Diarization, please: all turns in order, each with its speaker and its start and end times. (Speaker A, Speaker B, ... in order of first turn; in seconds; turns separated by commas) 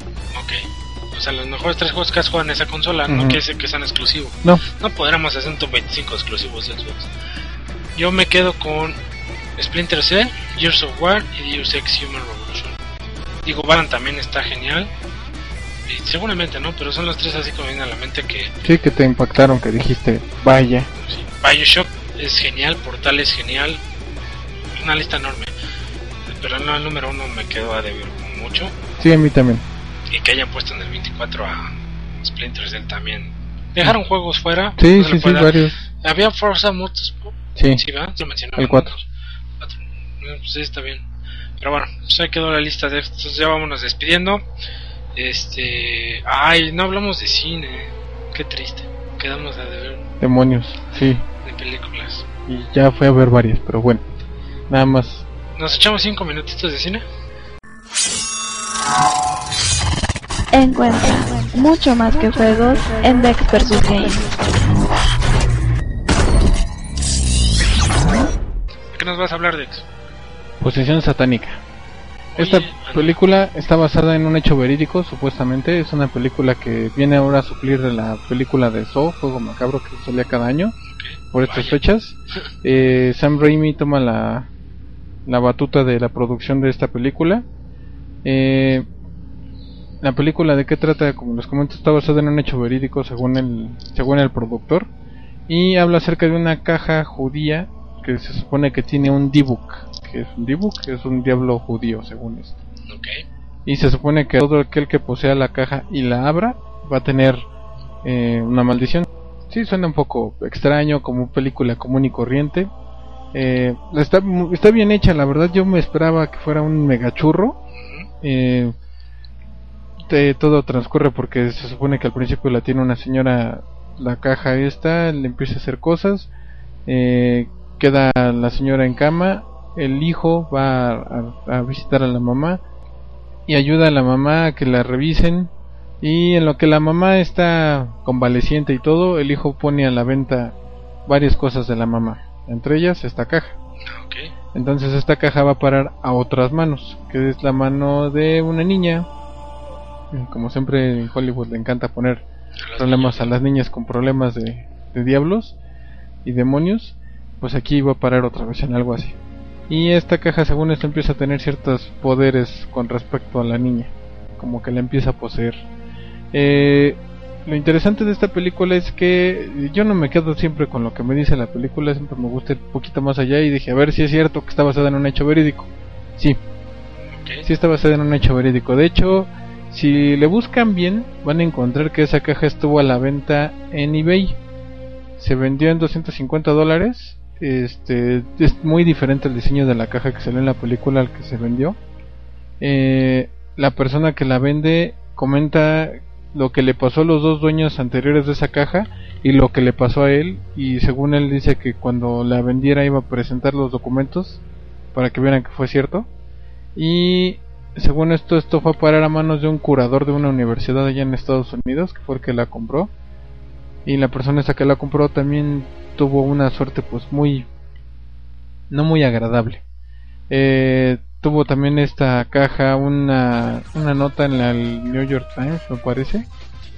Speaker A: 0.3-7.1, Speaker B: 3.1-3.4, Speaker A: 8.0-9.0, Speaker A: 9.6-12.8, Speaker A: 13.4-14.9, Speaker A: 15.9-18.5, Speaker B: 18.6-20.9, Speaker A: 21.0-23.8, Speaker A: 24.7-25.5, Speaker A: 26.3-28.8, Speaker B: 29.0-29.6, Speaker A: 30.1-39.0, Speaker B: 34.8-35.8, Speaker B: 37.5-37.8, Speaker B: 38.5-38.9, Speaker A: 39.6-41.0, Speaker A: 41.6-44.4, Speaker A: 45.1-50.0, Speaker B: 50.2-51.2, Speaker A: 51.4-52.3, Speaker B: 52.5-54.0, Speaker B: 54.7-55.2, Speaker A: 55.5-57.0, Speaker C: 60.5-64.3, Speaker A: 68.9-69.8, Speaker B: 70.6-71.6, Speaker A: 72.3-73.2, Speaker B: 72.4-80.7, Speaker A: 80.9-81.8, Speaker B: 81.3-84.5, Speaker B: 85.3-87.5, Speaker B: 88.2-88.9, Speaker B: 90.0-94.9, Speaker B: 95.5-102.6, Speaker A: 102.8-103.2, Speaker B: 103.7-107.5, Speaker B: 108.0-112.7, Speaker B: 113.3-117.6, Speaker A: 117.8-118.1, Speaker B: 118.2-118.7, Speaker B: 120.0-126.3, Speaker B: 126.9-132.6, Speaker B: 133.5-140.6, Speaker B: 141.1-143.6, Speaker A: 143.9-144.3, Speaker B: 144.5-149.1, Speaker B: 150.1-152.2, Speaker A: 152.6-153.3, Speaker B: 152.8-155.6, Speaker B: 156.2-159.2, Speaker B: 159.7-165.6, Speaker B: 166.3-176.4, Speaker A: 177.0-177.5, Speaker B: 177.4-184.4, Speaker B: 185.2-191.8, Speaker B: 192.6-204.4, Speaker B: 204.9-206.1, Speaker B: 206.8-212.9, Speaker B: 213.8-217.5, Speaker B: 218.7-219.6, Speaker B: 220.3-226.3